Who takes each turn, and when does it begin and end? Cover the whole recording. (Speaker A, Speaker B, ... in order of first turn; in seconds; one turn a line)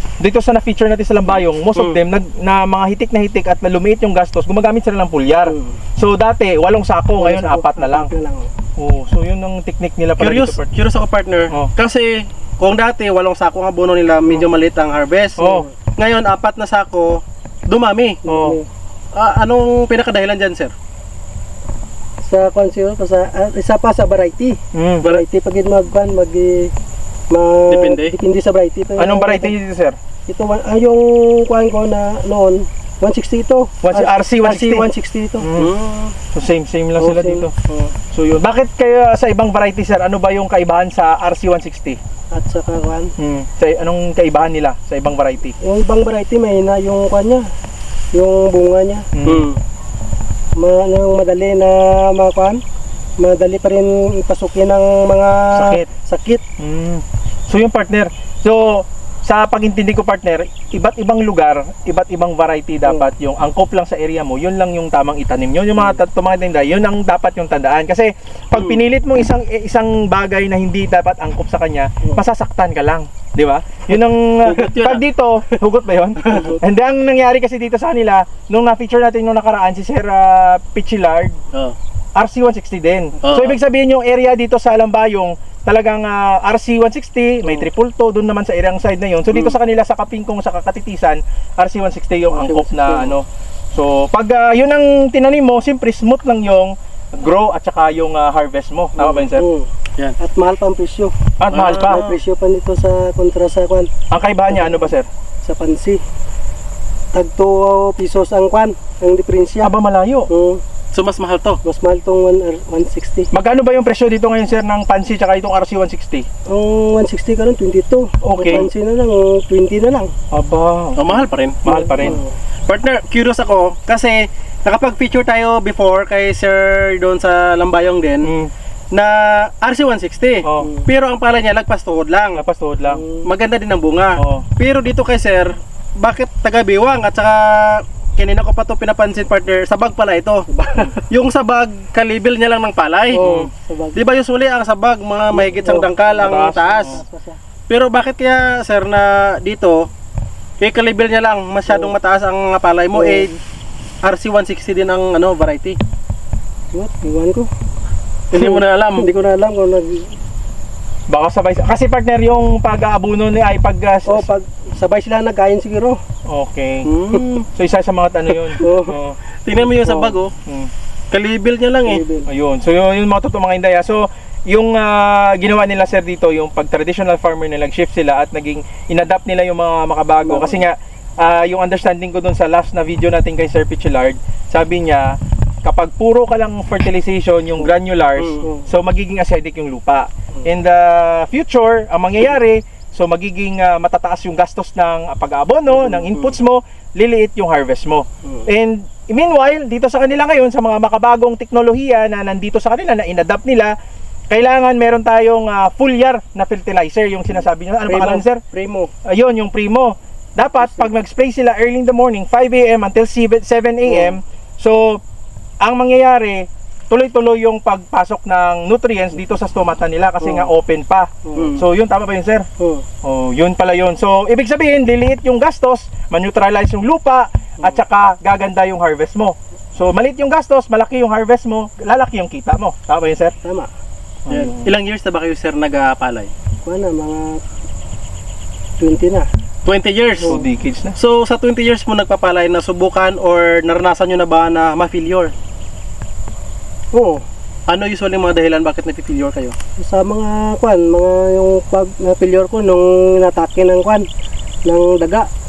Speaker A: 0.2-8.1
Speaker B: 1.8-2.0
Speaker C: 5.5-5.8
Speaker C: 7.2-8.5
Speaker A: 8.8-10.7
Speaker B: 10.2-18.2
Speaker A: 15.4-15.7
Speaker C: 15.4-15.7
Speaker C: 18.2-18.7
Speaker A: 18.3-18.6
Speaker B: 19.1-20.7
Speaker C: 22.2-26.7
Speaker A: 24.7-25.1
Speaker C: 27.3-29.5
Speaker B: 27.7-28.1
Speaker A: 29.0-30.0
Speaker C: 30.3-35.5
Speaker A: 33.8-34.9
Speaker A: 35.4-35.7
Speaker B: 35.5-36.2
Speaker A: 36.3-37.5
Speaker C: 37.0-37.9
Speaker A: 38.1-42.0
Speaker C: 42.3-43.1
Speaker A: 43.2-45.5
Speaker C: 45.6-47.5
Speaker C: 48.1-49.1
Speaker A: 49.1-49.5
Speaker B: 49.2-49.6
Speaker C: 50.6-52.6
Speaker C: 53.2-56.4
Speaker A: 55.5-55.9
Speaker A: 56.6-81.4
Speaker B: 68.5-68.8
Speaker B: 74.4-75.0
Speaker A: 82.2-99.5
Speaker B: 83.2-83.6
Speaker C: 92.3-93.2
Speaker C: 99.0-99.7
Speaker C: 100.2-101.1
Speaker A: 101.4-102.0
Speaker B: 101.5-102.2
Speaker C: 101.7-103.9
Speaker A: 104.1-105.1
Speaker C: 104.5-104.9
Speaker C: 105.4-106.0
Speaker C: 107.1-109.7
Speaker A: 109.6-110.3
Speaker C: 110.3-110.6
Speaker B: 110.9-111.6
Speaker C: 111.6-113.3
Speaker A: 113.3-116.3
Speaker C: 116.5-120.1
Speaker A: 118.2-118.7
Speaker A: 120.3-122.2
Speaker B: 121.0-122.2
Speaker C: 121.7-122.3
Speaker B: 122.7-128.3
Speaker A: 128.2-128.5
Speaker B: 128.9-132.4
Speaker A: 130.4-130.7
Speaker C: 130.6-130.9
Speaker A: 132.3-133.0
Speaker C: 132.9-133.3
Speaker B: 133.2-140.5
Speaker A: 134.2-134.5
Speaker C: 140.5-141.0
Speaker B: 141.1-143.3
Speaker C: 143.1-144.0
Speaker A: 143.2-143.5
Speaker B: 143.9-147.0
Speaker C: 145.3-147.4
Speaker A: 146.2-147.0
Speaker B: 147.7-149.9
Speaker B: 150.6-153.3
Speaker C: 151.7-151.9
Speaker C: 152.9-153.3
Speaker B: 154.0-155.8
Speaker C: 156.7-157.5
Speaker B: 158.3-159.1
Speaker C: 158.3-160.1
Speaker A: 161.1-164.3
Speaker C: 164.1-166.0
Speaker A: 166.3-166.9
Speaker B: 166.9-167.4
Speaker A: 167.4-169.2
Speaker C: 168.6-169.0
Speaker B: 169.4-170.3
Speaker C: 169.6-170.2
Speaker B: 171.1-172.0
Speaker C: 171.8-172.3
Speaker A: 172.3-203.8
Speaker C: 180.2-180.7
Speaker B: 188.2-188.4
Speaker C: 188.4-188.7
Speaker B: 195.8-196.3
Speaker A: 204.3-208.4
Speaker C: 207.9-208.9
Speaker A: 209.1-215.0
Speaker C: 210.4-210.9
Speaker C: 213.9-214.2
Speaker A: 215.6-222.5
Speaker C: 220.2-220.5
Speaker C: 221.2-221.6
Speaker B: 221.4-221.6
Speaker C: 222.6-222.8
Speaker A: 223.0-233.3
Speaker C: 233.4-233.7
Speaker A: 234.3-234.7
Speaker B: 234.3-236.3
Speaker C: 236.6-237.4
Speaker C: 238.8-239.3
Speaker B: 239.7-240.4
Speaker A: 240.2-241.0
Speaker B: 241.0-245.3
Speaker C: 246.9-247.2
Speaker B: 247.7-249.6
Speaker C: 249.8-254.1
Speaker C: 254.7-255.3